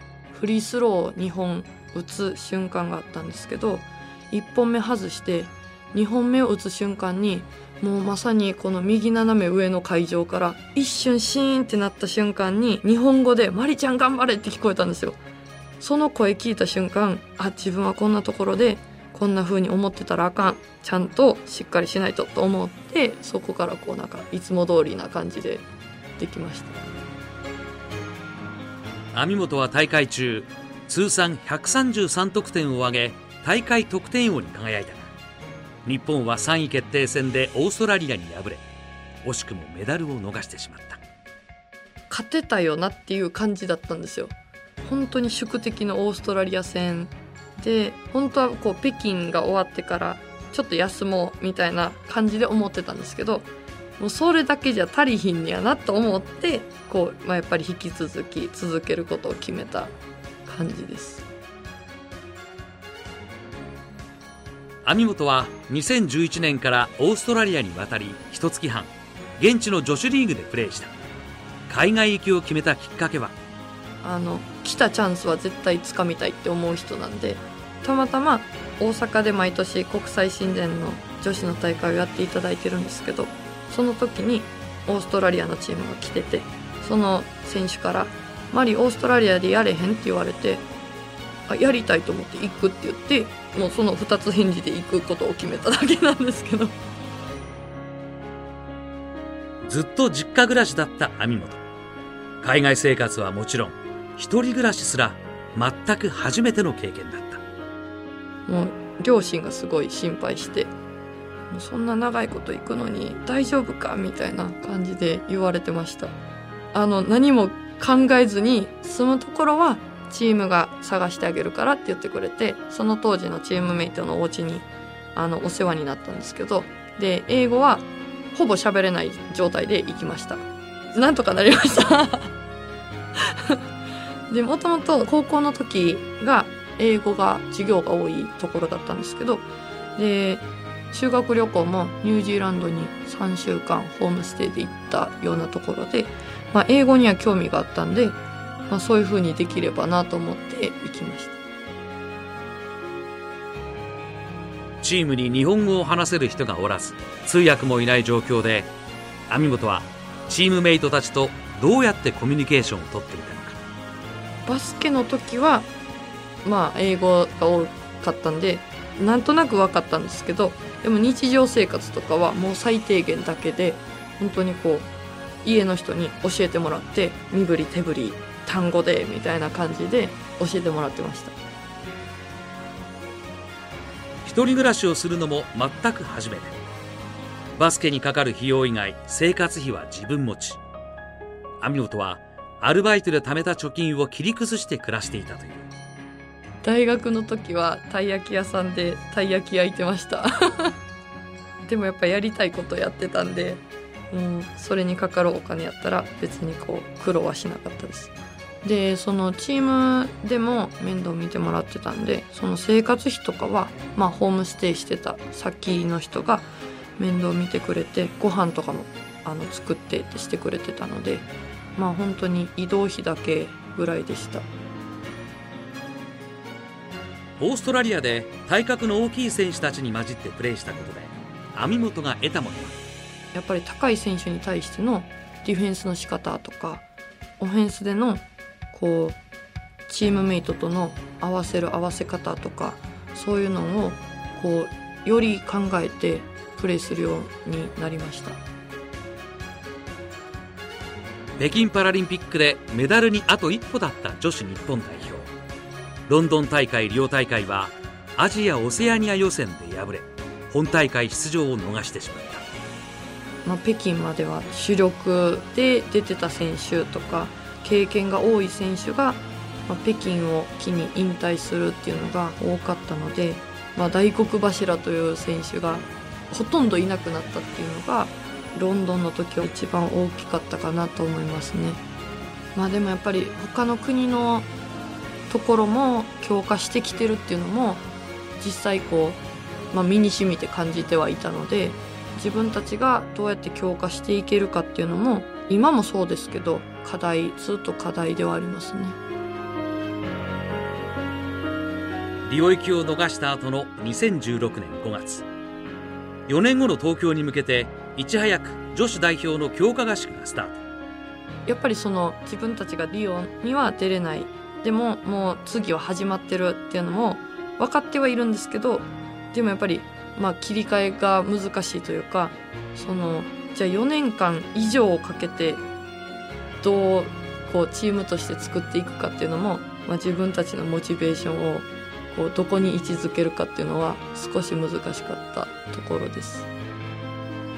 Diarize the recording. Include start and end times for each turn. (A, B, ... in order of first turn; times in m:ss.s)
0:00.3-0:15.2 A
0:15.8-0:25.6 A
0:26.2-0:26.8 A
0:29.1-0:35.1 B
0:35.8-0:38.6 B
0:39.2-0:41.0 B
0:42.1-1:01.2 A
1:04.8-1:10.9 B
1:11.7-1:13.3 B
1:14.0-1:30.7 A
1:31.5-1:36.8 A
1:39.6-1:41.6 B
1:42.4-1:47.4 B
1:48.5-1:50.7 A
1:51.5-1:56.1 A
1:56.7-2:12.3 A
2:14.3-2:31.4 A
2:34.8-2:38.7 B
2:39.3-2:43.6 B
2:44.4-2:45.7 A
2:46.4-2:54.9 A
2:55.4-3:01.4 A
3:04.2-3:06.5 B
3:07.5-3:10.6 B
3:11.6-3:15.7 B
3:16.6-3:20.7 A
3:21.7-3:28.1 A
3:28.6-3:44.5 A
3:47.4-3:52.8 B
3:53.3-3:56.8 A
3:57.4-3:59.2 A
3:59.9-4:08.4 A
4:11.4-4:15.3 B
4:16.1-4:22.4 B
4:23.4-4:41.8 A
4:42.5-4:44.5 A
4:45.3-4:47.8 A
4:48.4-4:59.0 A
5:02.2-5:05.2 B
5:06.3-5:10.6 B
5:11.4-5:25.6 A
5:26.6-5:36.5 A